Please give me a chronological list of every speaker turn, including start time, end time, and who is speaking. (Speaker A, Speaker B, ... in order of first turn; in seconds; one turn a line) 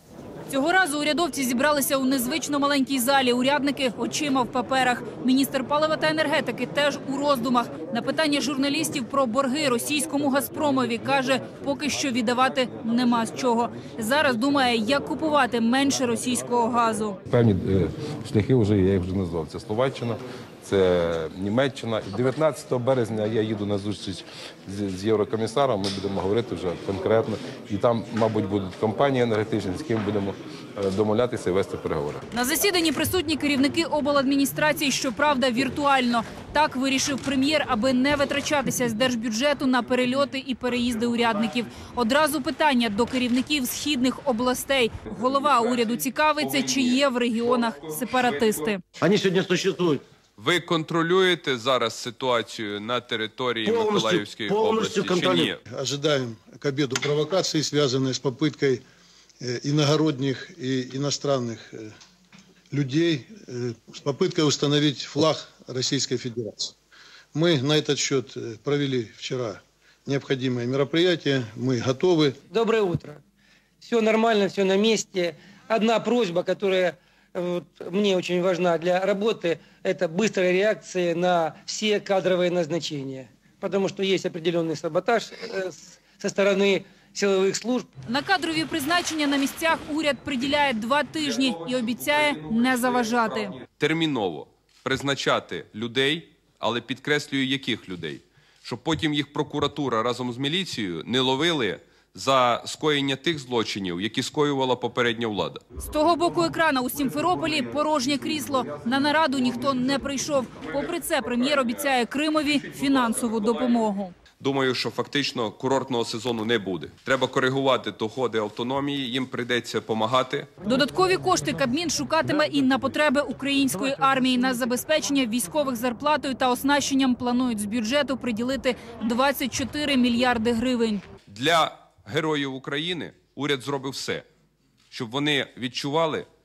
Speaker A: 0.5-17.2
Speaker B: 17.3-32.2
Speaker A: 32.3-48.8
Speaker C: 46.4-47.0
Speaker D: 49.0-50.0
Speaker C: 50.4-55.6
Speaker D: 53.6-55.5
Speaker E: 55.7-58.8
Speaker E: 59.4-61.9
Speaker E: 62.7-66.7
Speaker E: 67.3-72.4
Speaker F: 72.5-73.2
Speaker F: 73.8-87.9
Speaker A: 88.1-93.6
Speaker C: 92.0-92.9
Speaker C: 93.6-105.6
Speaker A: 105.8-114.1
Speaker C: 111.3-111.7
Speaker C: 112.6-113.7
Speaker C: 114.4-120.5
Speaker A: 120.6-131.0
Speaker C: 131.3-134.2
Speaker C: 134.9-136.3